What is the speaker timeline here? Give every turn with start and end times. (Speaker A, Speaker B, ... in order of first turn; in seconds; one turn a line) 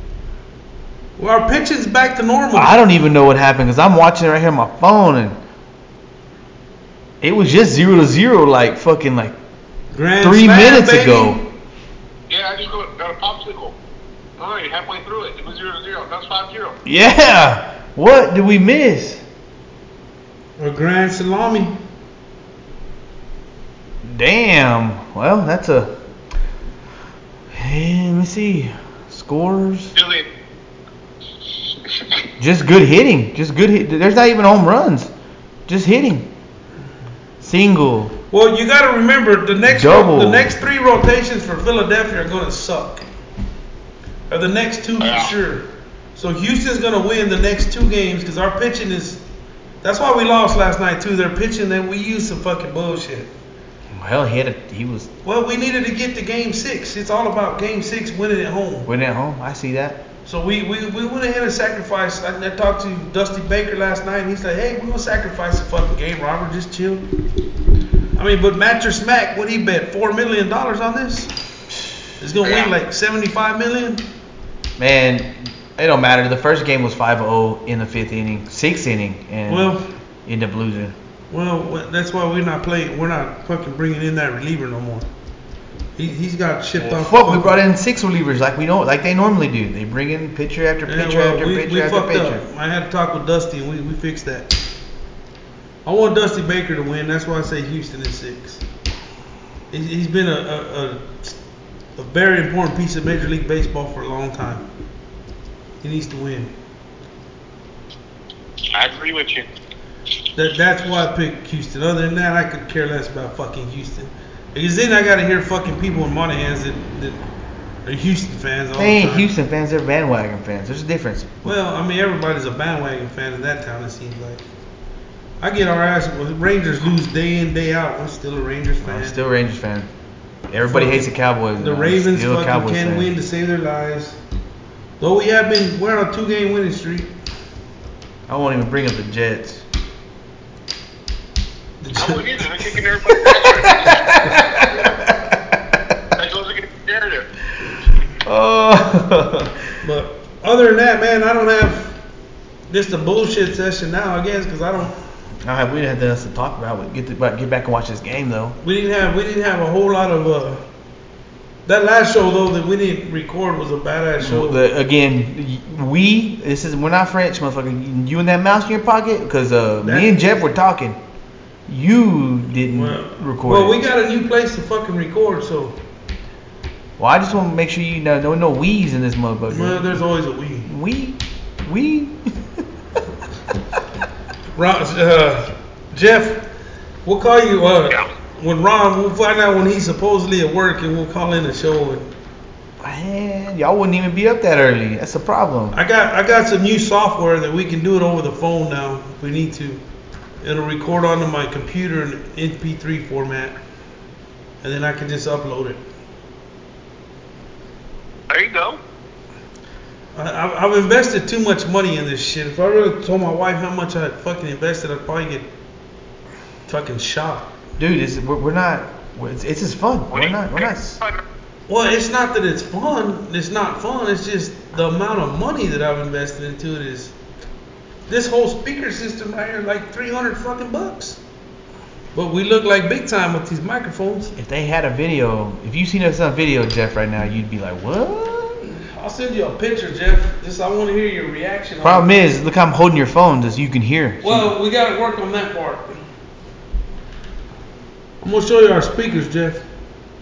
Speaker A: 1.2-2.7
Speaker B: 2.6-5.4
Speaker B: 7.2-9.4
Speaker A: 9.9-11.4
Speaker B: 10.2-11.4
Speaker C: 12.3-13.8
Speaker C: 14.4-16.8
Speaker B: 16.9-19.2
Speaker A: 20.6-21.8
Speaker B: 24.0-25.9
Speaker B: 27.5-30.0
Speaker C: 30.0-30.3
Speaker B: 32.4-35.1
Speaker B: 35.7-36.3
Speaker B: 37.4-38.1
Speaker A: 38.3-43.0
Speaker B: 39.7-40.5
Speaker A: 44.3-49.2
Speaker C: 45.0-45.3
Speaker A: 49.8-53.3
Speaker B: 53.9-55.1
Speaker A: 55.2-58.9
Speaker B: 58.9-60.0
Speaker A: 60.2-67.0
Speaker A: 68.2-71.3
Speaker A: 72.2-74.0
Speaker C: 72.4-72.7
Speaker B: 74.8-79.7
Speaker A: 79.5-79.8
Speaker B: 80.3-81.0
Speaker A: 81.3-85.1
Speaker A: 86.0-87.6
Speaker B: 86.8-92.4
Speaker A: 90.9-94.5
Speaker A: 95.8-98.6
Speaker A: 99.7-101.4
Speaker A: 102.0-104.7
Speaker A: 105.8-106.5
Speaker C: 108.7-109.5
Speaker A: 110.4-117.2
Speaker A: 117.8-119.3
Speaker B: 118.8-121.5
Speaker A: 121.4-124.4
Speaker A: 125.4-129.2
Speaker B: 128.8-129.9
Speaker B: 130.5-133.1
Speaker A: 130.7-134.2
Speaker A: 135.0-137.1
Speaker B: 138.3-139.7
Speaker A: 141.8-142.4
Speaker C: 142.0-145.0
Speaker B: 143.1-146.0
Speaker C: 146.2-147.3
Speaker B: 148.2-149.6
Speaker A: 149.8-152.0
Speaker A: 152.7-154.9
Speaker B: 155.4-158.6
Speaker A: 158.6-160.6
Speaker A: 161.7-164.6
Speaker B: 164.2-171.0
Speaker A: 169.8-170.2
Speaker B: 171.7-173.8
Speaker A: 172.7-175.8
Speaker B: 177.0-180.0
Speaker A: 179.5-180.7
Speaker B: 180.7-182.7
Speaker A: 184.6-186.4
Speaker A: 187.1-192.1
Speaker B: 192.8-195.8
Speaker A: 195.7-199.8
Speaker A: 200.4-203.6
Speaker A: 204.6-205.8
Speaker C: 208.3-208.8
Speaker A: 210.2-215.5
Speaker A: 216.7-217.5
Speaker B: 217.8-221.0
Speaker C: 220.1-221.2
Speaker A: 221.7-227.1
Speaker A: 228.1-231.2
Speaker A: 232.2-234.3
Speaker B: 234.4-238.6
Speaker A: 238.7-242.1
Speaker B: 241.8-244.5
Speaker A: 244.2-245.9
Speaker A: 248.2-249.6